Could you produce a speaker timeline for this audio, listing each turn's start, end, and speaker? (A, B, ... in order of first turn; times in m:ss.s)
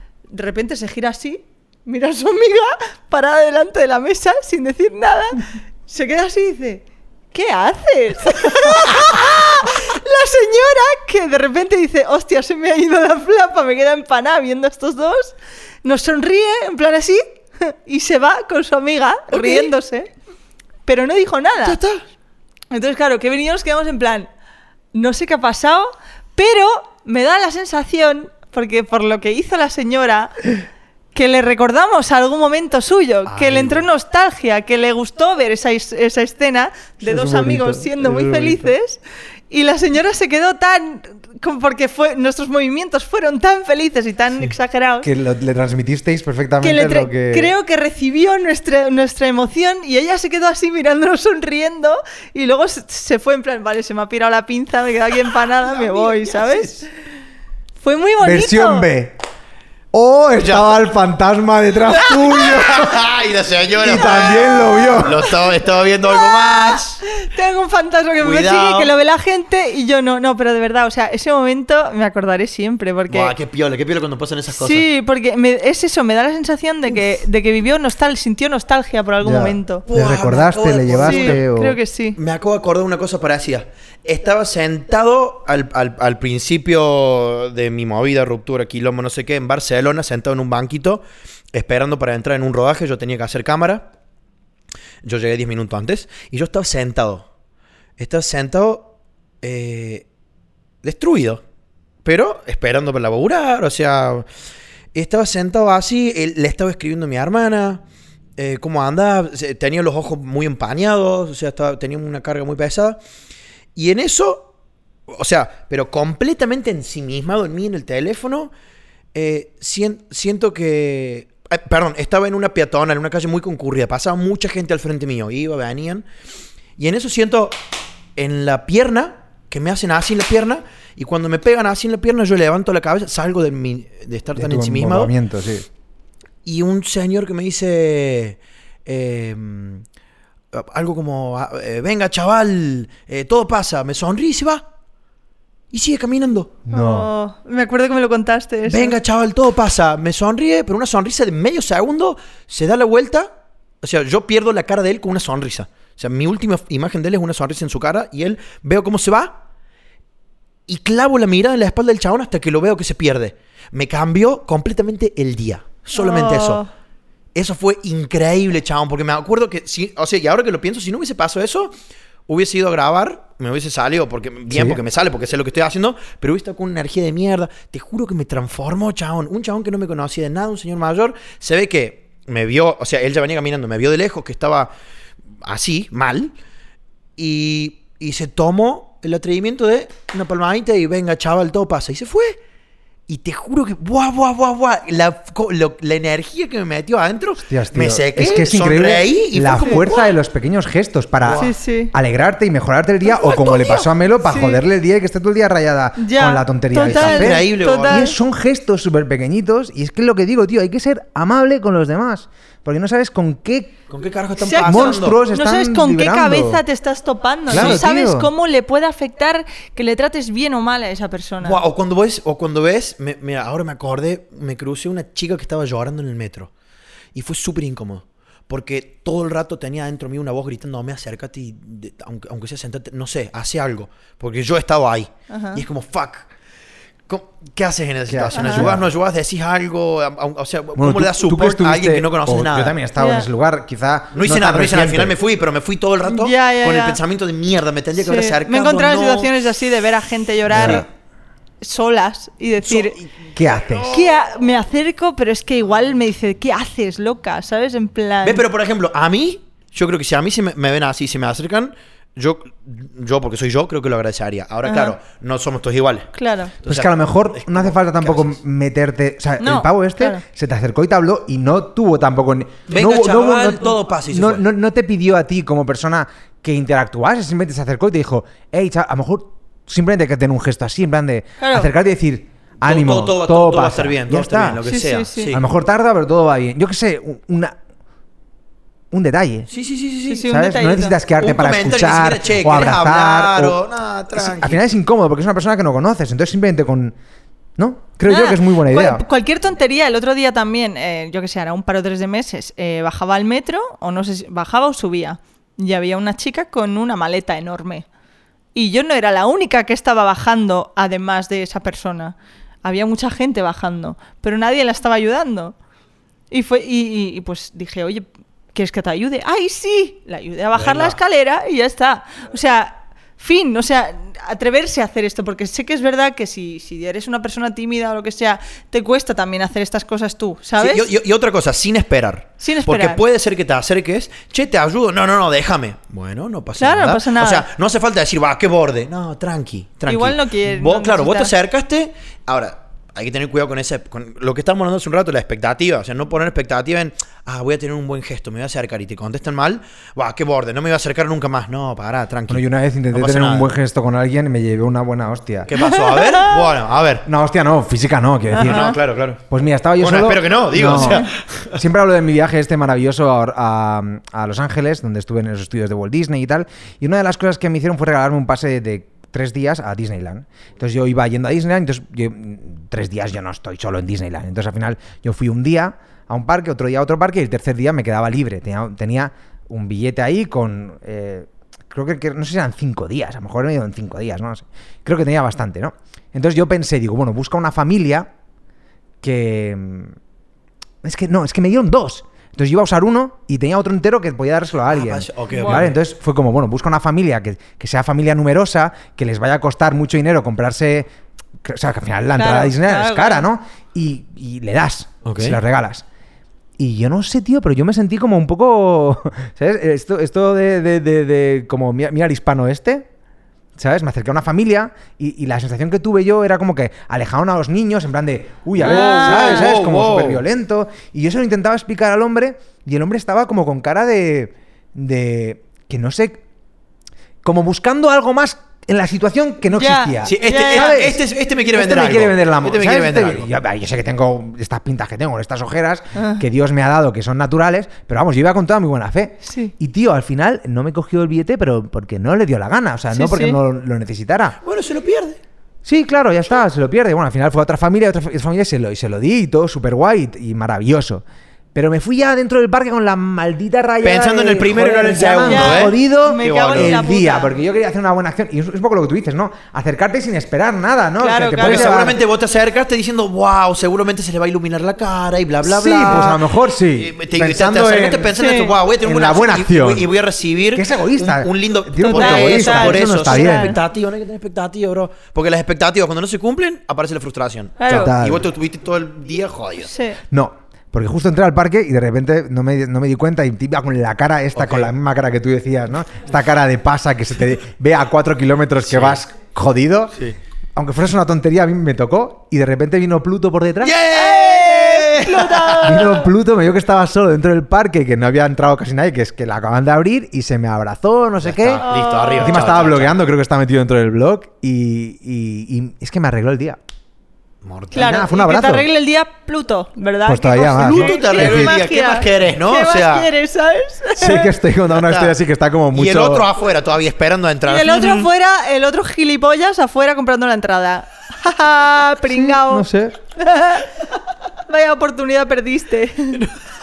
0:00.3-0:20.1 A
0:19.3-0:19.7 B
0:20.8-0:21.8 A
0:21.6-0:22.0 B
0:22.7-0:24.3 A
0:24.9-0:30.5 A
0:31.1-0:45.1 A
0:33.3-0:33.9 B
0:37.0-0:38.7 C
0:45.0-0:47.5 C
0:46.6-0:56.9 A
0:55.7-0:56.8 B
0:57.8-0:58.9 A
0:58.2-0:59.2 C
0:59.9-1:03.0 C
1:00.4-1:00.7 B
1:02.0-1:07.0 B
1:03.8-1:05.3 C
1:04.4-1:05.0 A
1:06.0-1:13.3 A
1:08.2-1:08.9 B
1:13.1-1:14.9 B
1:14.5-1:19.9 A
1:19.2-1:21.8 C
1:19.9-1:21.4 B
1:21.0-1:22.2 A
1:22.2-1:33.9 B
1:35.0-1:37.3 B
1:38.0-1:40.1 B
1:40.8-1:41.4 B
1:42.0-1:44.3 B
1:44.9-1:47.8 B
1:48.4-1:53.0 B
1:53.8-1:54.5 B
1:55.1-1:58.5 B
1:59.1-2:06.1 B
2:06.8-2:07.6 B
2:08.2-2:15.1 B
2:14.4-2:15.7 C
2:16.4-2:19.8 B
2:20.5-2:24.7 B
2:25.7-2:26.5 B
2:26.7-2:27.1 C
2:26.7-2:29.0 A
2:28.7-2:33.3 B
2:33.8-2:39.4 B
2:40.7-2:46.6 B
2:46.0-2:46.7 A
2:47.4-2:51.8 B
2:52.3-3:04.7 B
2:54.5-2:54.8 C
3:05.4-3:06.3 B
3:07.2-3:12.4 B
3:13.1-3:20.1 B
3:17.4-3:33.8 C
3:19.6-3:19.8 A
3:21.2-3:21.5 B
3:21.4-3:21.9 A
3:23.1-3:24.6 A
3:26.0-3:28.2 A
3:26.8-3:28.1 B
3:33.9-3:35.2 B
3:34.4-3:41.6 A
3:34.6-3:36.6 C
3:37.5-3:38.3 C
3:37.5-3:37.8 B
3:41.4-3:46.5 B
3:47.1-3:56.3 B
3:55.3-3:55.6 A
3:57.1-4:02.8 B
3:58.1-3:58.9 C
3:58.4-3:58.7 A
4:00.8-4:05.2 C
4:03.0-4:03.3 A
4:04.1-4:09.3 B
4:06.1-4:07.0 A
4:08.0-4:10.9 A
4:10.5-4:10.8 C
4:10.6-4:10.8 B
4:11.6-4:13.0 A
4:12.6-4:14.1 B
4:13.4-4:14.0 C
4:13.9-4:18.4 A
4:18.2-4:26.1 B
4:24.6-4:25.0 A
4:26.1-4:26.6 A
4:26.6-4:28.4 B
4:26.7-4:44.6 C
4:29.4-4:30.2 A
4:32.7-4:34.4 B
4:41.4-4:41.7 A
4:42.6-4:45.4 B
4:44.6-4:45.3 A
4:45.3-4:47.6 C
4:48.9-4:49.5 C
4:49.5-4:50.2 B
4:50.1-4:51.0 A
4:50.3-4:53.6 C
4:51.2-4:54.6 B
4:54.1-4:57.0 C
4:57.6-4:59.0 C
4:58.1-5:07.8 A
5:08.6-5:15.5 A
5:16.3-5:30.9 A
5:20.6-5:21.0 B
5:30.6-5:53.5 B
5:32.4-5:33.0 A
5:36.6-5:37.5 A
5:39.9-5:41.3 A
5:52.3-5:55.5 C
5:55.5-5:57.0 B
5:55.6-5:56.5 A
5:57.1-6:28.1 C
5:58.3-5:59.2 B
5:58.4-5:58.8 A
5:59.8-6:01.6 B
6:00.7-6:01.1 A
6:29.0-6:30.0 C
6:30.8-6:40.9 C
6:34.7-6:35.8 B
6:35.3-6:35.6 A
6:41.4-6:45.8 C
6:42.2-6:43.3 A
6:45.0-6:45.4 B
6:46.6-6:52.9 C
6:53.6-7:06.2 C
6:58.6-7:00.2 B
6:58.6-6:59.5 A
7:07.2-7:11.0 C
7:09.5-7:10.9 A
7:10.0-7:13.3 B
7:11.5-7:24.4 C
7:16.0-7:16.2 A
7:19.3-7:19.5 A
7:22.9-7:23.4 A
7:24.4-7:25.2 B
7:25.6-7:31.0 C
7:31.6-7:42.0 C
7:33.8-7:36.8 B
7:35.2-7:37.3 A
7:41.0-7:41.9 A
7:41.4-7:59.7 B
7:45.4-7:48.1 C
7:48.2-7:48.6 A
7:48.8-7:49.9 C
7:50.5-7:53.6 C
7:51.8-7:53.6 A
7:57.6-7:57.9 A
7:57.7-7:58.2 C
7:59.7-8:00.0 A
8:00.1-8:10.0 C
8:04.4-8:04.7 B
8:08.7-8:09.0 B
8:10.6-8:13.8 C
8:13.6-8:15.8 B
8:13.9-8:16.1 A
8:15.6-8:21.6 C
8:21.2-8:23.0 B
8:21.6-8:22.5 A
8:22.2-8:26.6 C
8:27.4-8:28.0 B
8:27.7-8:34.3 A
8:27.8-8:28.7 C
8:30.1-8:31.6 C
8:30.5-8:33.1 B
8:34.0-8:36.3 C
8:34.7-8:35.2 B
8:35.7-8:38.1 B
8:37.5-8:43.9 A
8:42.1-8:43.0 C
8:44.5-8:46.2 A